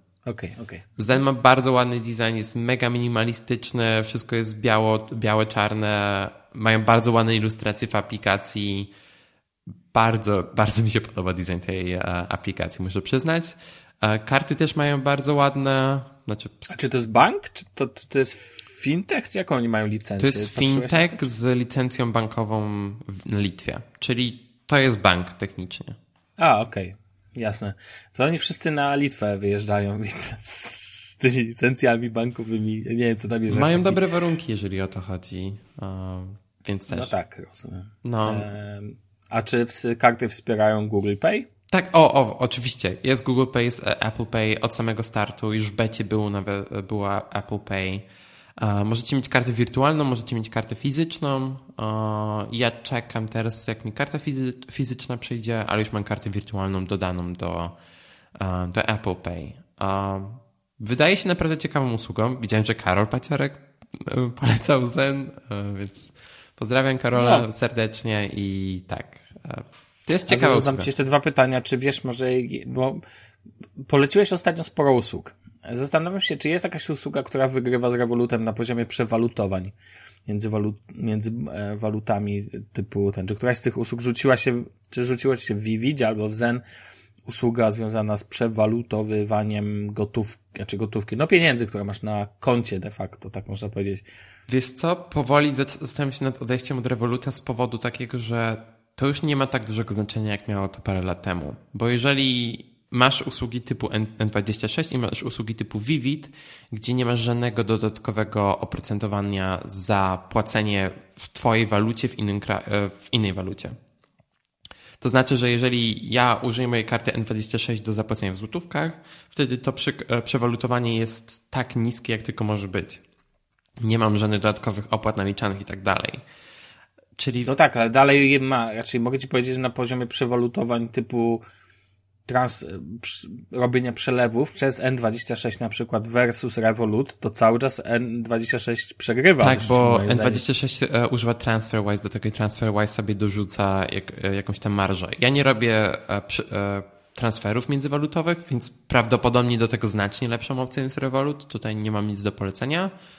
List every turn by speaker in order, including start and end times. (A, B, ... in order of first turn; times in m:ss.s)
0:00.2-0:00.8 A
0:01.0-0:08.9 B
0:09.9-0:16.7 B
0:16.7-0:21.2 A
0:20.2-0:26.0 B
0:26.4-0:34.0 A
0:33.5-0:37.1 B
0:36.9-0:41.5 A
0:38.0-0:38.5 B
0:41.7-0:48.0 B
0:48.6-0:57.8 B
0:58.4-1:10.9 B
1:07.1-1:07.4 A
1:10.3-1:13.0 A
1:13.8-1:19.7 A
1:20.3-1:26.6 A
1:27.3-1:34.0 A
1:34.5-1:53.8 B
1:55.0-2:03.0 B
2:03.8-2:06.2 B
2:07.2-2:07.5 B
2:07.4-2:11.4 A
2:12.3-2:20.4 A
2:19.4-2:32.9 B